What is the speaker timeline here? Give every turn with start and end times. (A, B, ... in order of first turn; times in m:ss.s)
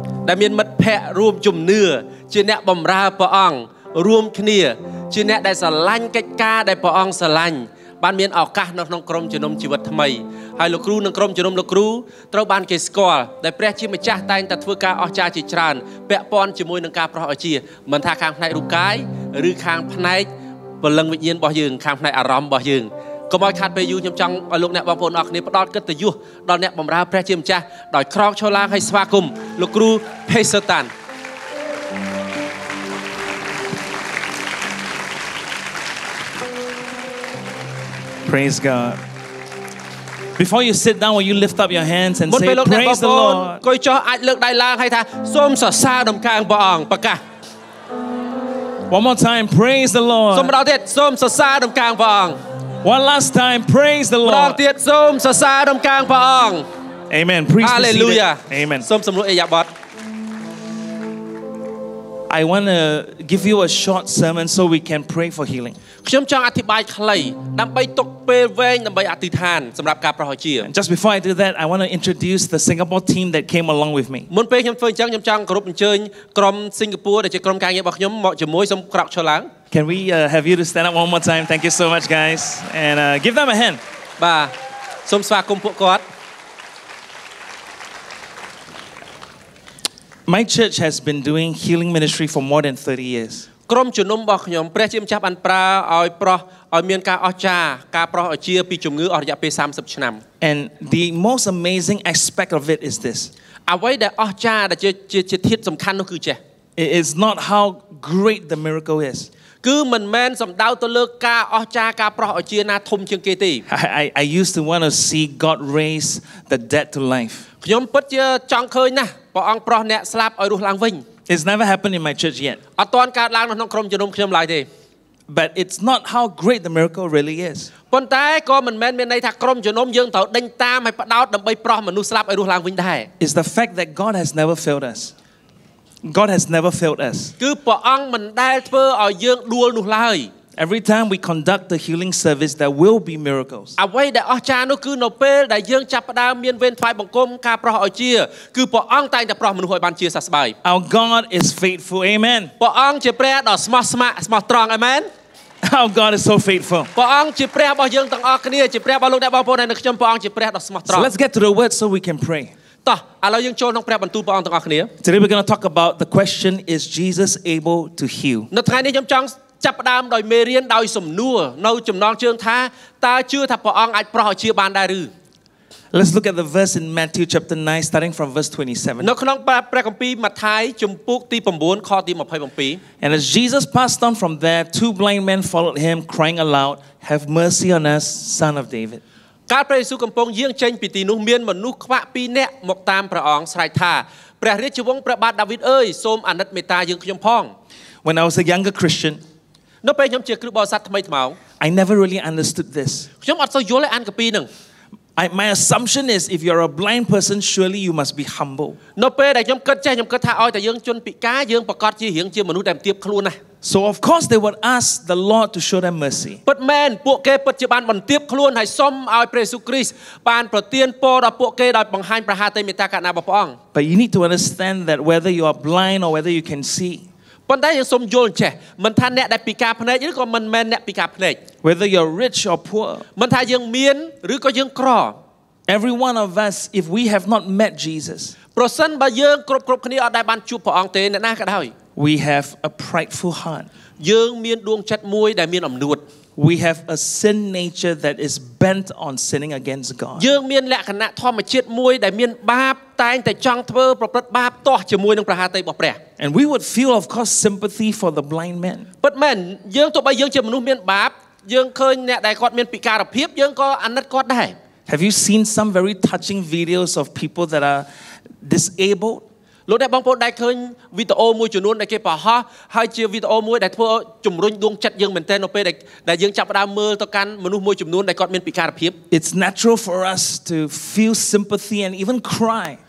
0:00.2-0:20.3 A
0:20.8-0:30.9 A
0:38.2-0:39.0 B
0:40.4-0:43.6 B
0:42.3-0:47.2 A
0:48.9-0:50.6 B
0:50.3-0:52.4 A
0:52.8-0:54.6 B
0:54.2-0:56.7 A
0:57.1-0:58.9 B
0:57.6-0:59.7 A
1:02.3-1:05.8 B
1:06.0-1:10.7 A
1:10.6-1:14.3 B
1:14.3-1:19.5 A
1:19.7-1:23.8 B
1:24.2-1:24.5 A
1:25.1-1:26.0 A
1:30.3-1:33.5 B
1:33.7-1:40.2 A
1:40.4-1:43.3 B
1:43.7-1:46.4 A
1:46.8-1:49.3 B
1:49.6-1:53.6 A
1:53.7-1:57.5 B
1:57.6-2:01.0 A
2:01.3-2:02.6 B
2:02.8-2:04.7 A
2:05.3-2:07.7 B
2:07.9-2:13.1 A
2:13.2-2:15.1 B
2:16.0-2:17.4 B
2:17.4-2:20.3 A
2:20.6-2:23.8 B
2:23.8-2:30.6 A
2:30.6-2:32.5 B
2:32.6-2:35.1 A
2:35.6-2:36.9 B
2:37.0-2:41.1 A
2:40.9-2:42.5 B
2:42.8-2:44.9 A
2:45.0-2:48.5 B
2:48.5-2:55.1 A
2:55.9-2:59.1 B
2:59.0-3:02.8 A
3:03.0-3:09.0 B
3:09.5-3:17.5 A
3:18.0-3:19.2 B
3:19.8-3:21.4 A
3:21.6-3:23.1 B
3:23.2-3:24.5 A
3:25.2-3:28.8 B
3:29.0-3:33.4 A
3:33.6-3:36.4 B
3:36.5-3:43.6 A
3:43.7-3:47.1 B
3:47.5-3:51.4 A
3:51.6-3:53.1 B
3:53.2-3:55.2 A
3:55.7-3:58.4 B
3:58.6-4:01.7 A
4:02.0-4:03.7 B
4:04.0-4:06.0 A
4:06.4-4:10.3 B
4:10.2-4:16.0 A
4:16.2-4:18.9 B
4:19.0-4:24.6 A
4:24.9-4:27.9 B
4:28.4-4:29.2 B
4:29.7-4:39.0 A
4:39.1-4:42.8 B